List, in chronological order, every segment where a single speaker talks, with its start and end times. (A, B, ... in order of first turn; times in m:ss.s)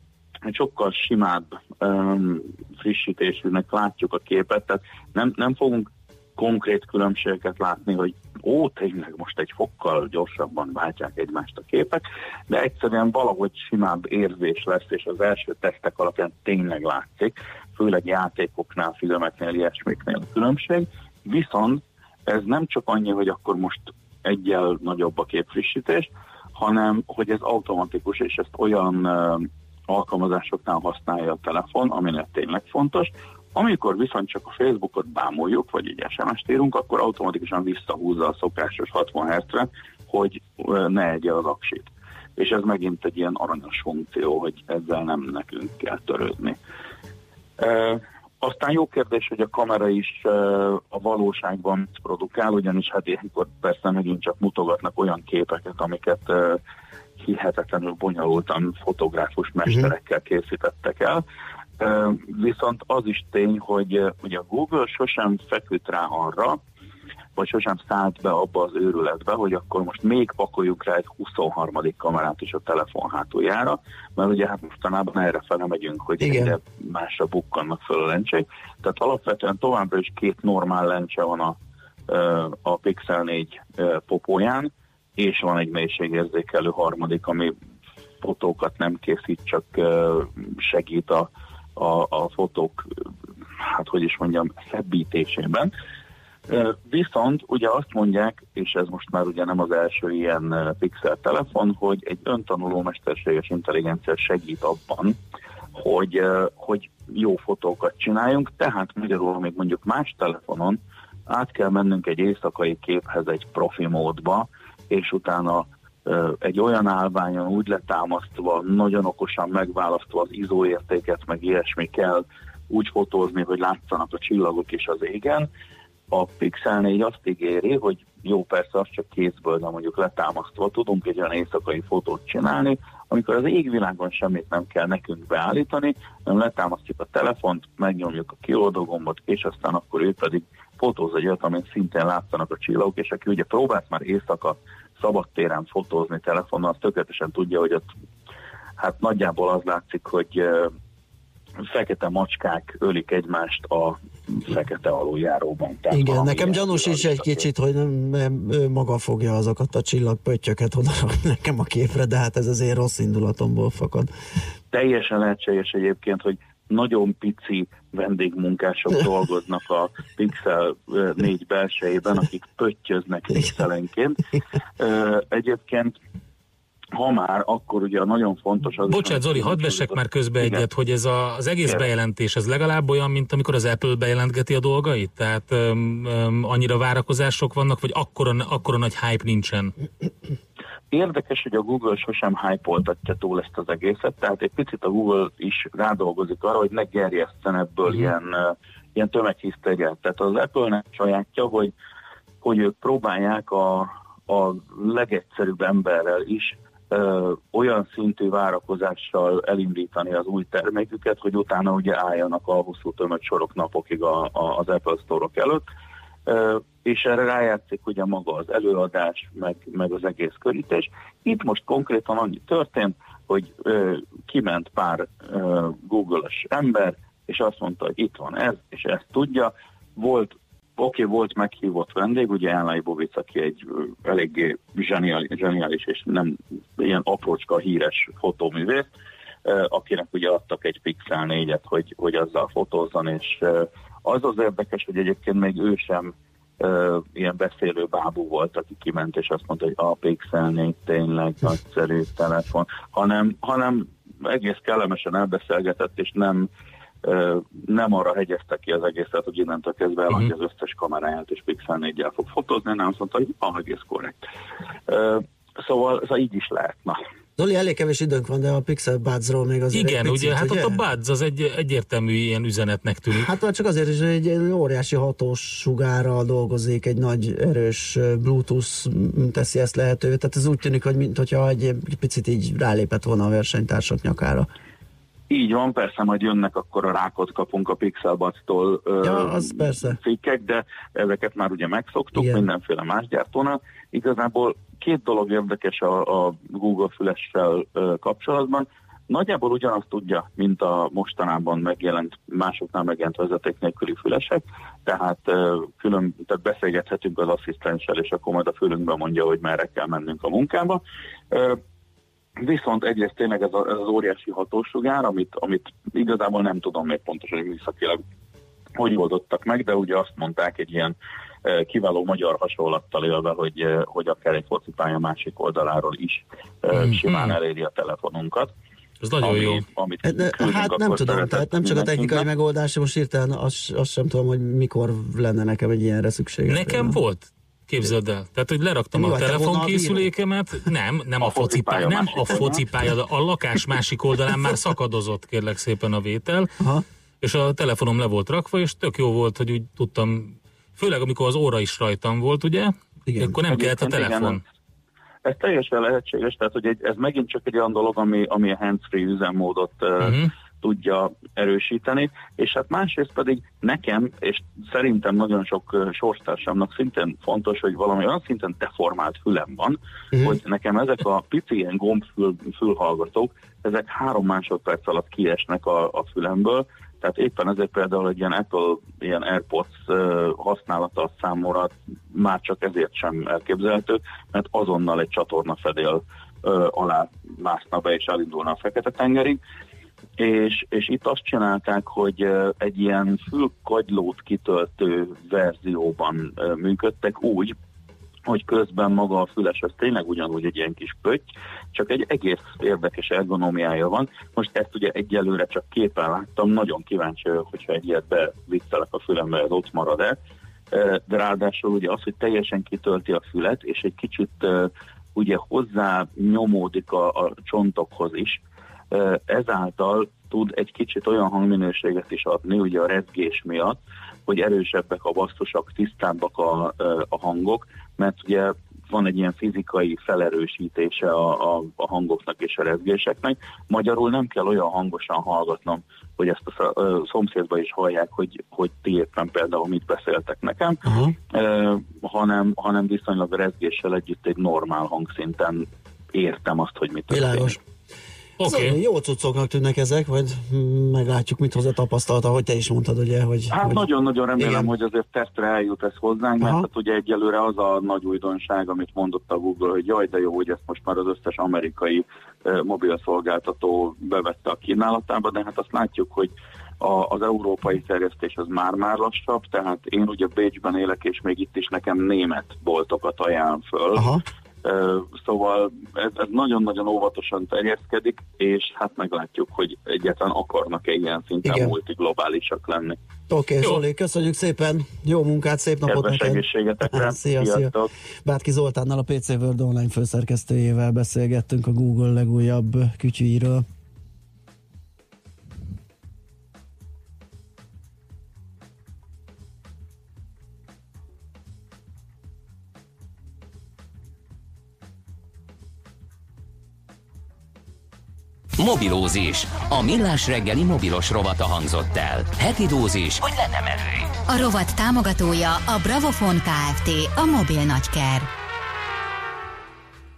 0:00.5-0:46.6 A
0:47.6-0:56.6 A
0:57.2-1:01.2 A
1:01.8-1:06.6 A
1:07.4-1:21.6 A
1:16.2-1:16.5 B
1:22.1-1:27.5 A
1:28.2-1:32.9 A
1:33.6-1:35.7 A
1:36.5-1:45.2 A
1:45.7-2:05.5 A
2:06.1-2:27.8 A
2:28.8-2:30.7 A
2:31.7-2:37.5 A
2:35.9-2:44.1 B
2:44.7-2:54.2 A
2:54.8-2:55.9 A
2:57.0-3:00.6 A
2:58.9-3:09.7 C
3:10.9-3:21.7 A
3:22.4-3:35.6 A
3:36.2-3:58.9 A
3:59.4-4:16.5 A
4:17.0-4:24.2 A
4:24.9-4:27.0 A
4:27.4-4:30.8 B
4:29.7-4:33.3 C
4:33.1-4:44.5 B
4:45.3-5:11.6 A
4:49.0-4:50.0 B
4:52.1-4:52.4 B
5:12.4-5:18.0 A
5:18.8-5:28.5 A
5:26.7-5:27.4 C
5:29.0-5:29.6 C
5:29.2-5:32.3 A
5:30.0-5:37.0 B
5:36.5-5:46.5 C
5:38.9-5:40.1 B
5:41.2-5:42.6 A
5:47.2-5:54.4 C
5:53.1-5:53.4 B
5:53.4-5:54.4 A
5:55.2-6:29.4 A
6:00.0-6:00.3 C
6:30.2-6:37.5 A
6:38.3-6:50.2 A
6:50.7-7:27.6 A
7:20.8-7:21.1 B
7:27.1-7:27.6 B
7:28.4-7:28.8 C
7:28.4-7:33.8 B
7:33.5-7:54.1 A
7:34.4-7:34.7 B
7:36.4-7:36.7 B
7:54.0-7:54.2 B
7:54.6-8:03.0 A
8:01.4-8:01.7 B
8:03.3-8:07.7 B
8:05.8-8:07.9 A
8:08.2-8:13.6 B
8:28.6-8:34.1 D
8:34.3-8:38.3 E